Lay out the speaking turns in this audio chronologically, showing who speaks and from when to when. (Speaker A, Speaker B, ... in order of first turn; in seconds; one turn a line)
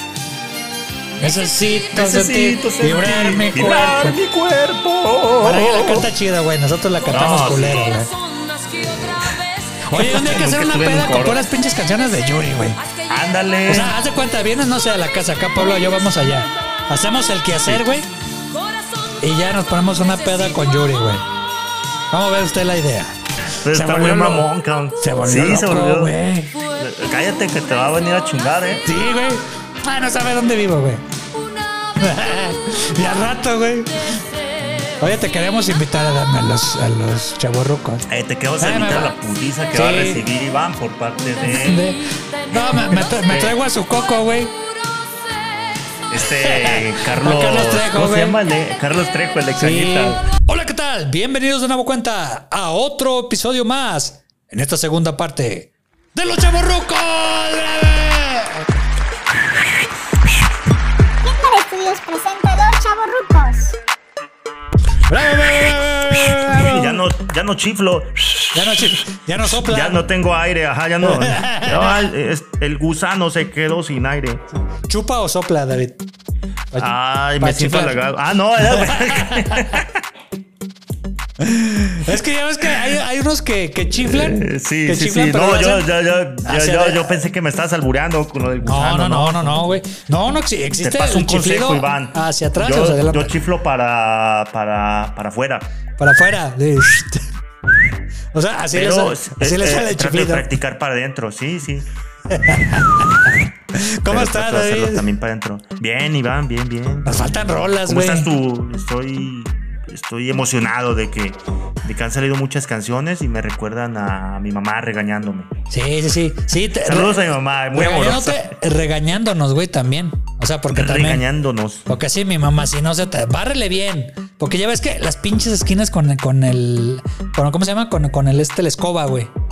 Speaker A: 1.2-4.2
Speaker B: 1.9-6.1
Speaker A: 5.4-8.1
Speaker B: 7.1-8.0
Speaker B: 8.7-11.4
Speaker A: 9.8-12.8
Speaker B: 13.1-13.9
Speaker A: 13.7-18.1
Speaker A: 19.2-21.3
Speaker A: 22.1-24.4
Speaker B: 23.5-26.1
Speaker A: 25.0-26.5
Speaker B: 26.7-28.9
Speaker A: 28.8-31.0
Speaker A: 32.0-34.2
Speaker A: 35.0-38.1
Speaker B: 38.1-41.9
Speaker A: 38.6-39.1
Speaker A: 39.7-40.2
Speaker A: 41.4-44.5
Speaker B: 42.6-43.6
Speaker B: 46.1-50.2
Speaker A: 46.2-48.4
Speaker A: 49.6-58.7
Speaker C: 61.2-63.7
Speaker A: 65.1-67.0
Speaker B: 66.2-74.4
Speaker A: 68.5-70.0
Speaker A: 71.0-72.0
Speaker A: 74.8-76.0
Speaker A: 76.7-78.0
Speaker B: 76.7-80.0
Speaker A: 78.6-79.8
Speaker A: 81.4-85.9
Speaker B: 84.0-89.8
Speaker A: 86.4-87.2
Speaker A: 88.6-93.3
Speaker B: 90.8-95.7
Speaker A: 96.0-97.3
Speaker A: 98.3-100.5
Speaker B: 98.7-101.9
Speaker A: 102.3-105.0
Speaker B: 102.4-103.3
Speaker B: 104.1-115.5
Speaker A: 107.0-108.3
Speaker A: 115.7-117.2
Speaker B: 116.8-118.5
Speaker A: 117.7-121.2
Speaker B: 120.7-121.9
Speaker A: 121.8-129.3